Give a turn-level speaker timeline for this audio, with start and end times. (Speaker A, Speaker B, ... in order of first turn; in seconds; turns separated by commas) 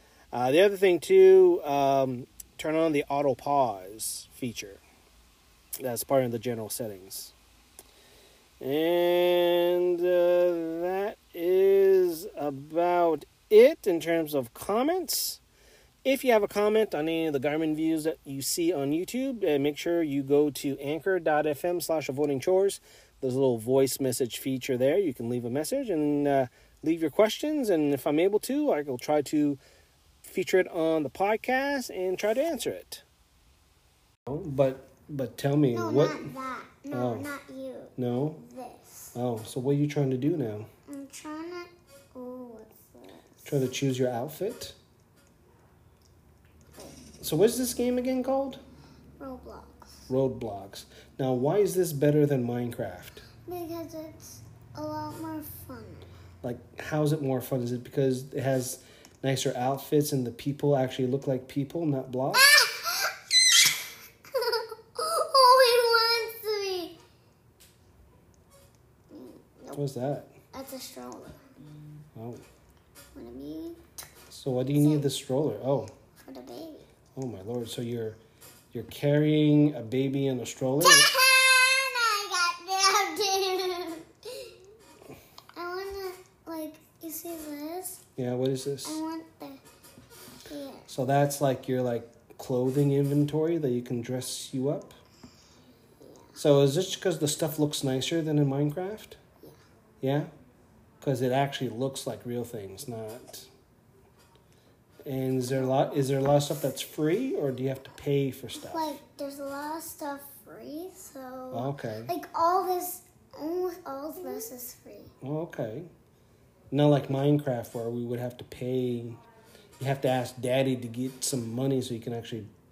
Speaker A: 0.3-4.8, Speaker A: 5.8-7.3, Speaker A: 8.6-15.4, Speaker A: 16.0-29.6, Speaker A: 30.2-33.0, Speaker A: 34.3-36.3, Speaker B: 35.7-39.1, Speaker A: 36.9-37.3, Speaker A: 38.0-38.4, Speaker A: 39.1-40.7, Speaker B: 40.9-43.5, Speaker A: 43.4-44.8, Speaker A: 47.2-48.6, Speaker B: 49.2-50.1, Speaker A: 50.1-53.2, Speaker B: 53.5-56.1, Speaker A: 56.4-62.5, Speaker B: 62.4-63.1, Speaker B: 64.3-67.0, Speaker B: 69.1-69.8, Speaker A: 69.7-70.3, Speaker B: 70.5-71.4, Speaker A: 72.2-72.4, Speaker B: 73.1-73.8, Speaker A: 74.3-75.9, Speaker B: 74.7-75.1, Speaker B: 76.2-76.9, Speaker A: 77.1-78.2, Speaker A: 78.7-81.1, Speaker B: 80.8-84.5, Speaker B: 85.5-88.0, Speaker A: 88.2-89.0, Speaker B: 88.8-89.6, Speaker B: 90.5-90.9, Speaker A: 90.9-95.0, Speaker B: 96.0-96.4, Speaker A: 96.4-99.2, Speaker A: 100.0-100.3, Speaker A: 101.0-103.5, Speaker A: 105.0-109.0, Speaker B: 108.6-115.1, Speaker A: 111.5-112.1, Speaker A: 115.2-115.9, Speaker A: 116.7-119.2, Speaker A: 119.8-122.5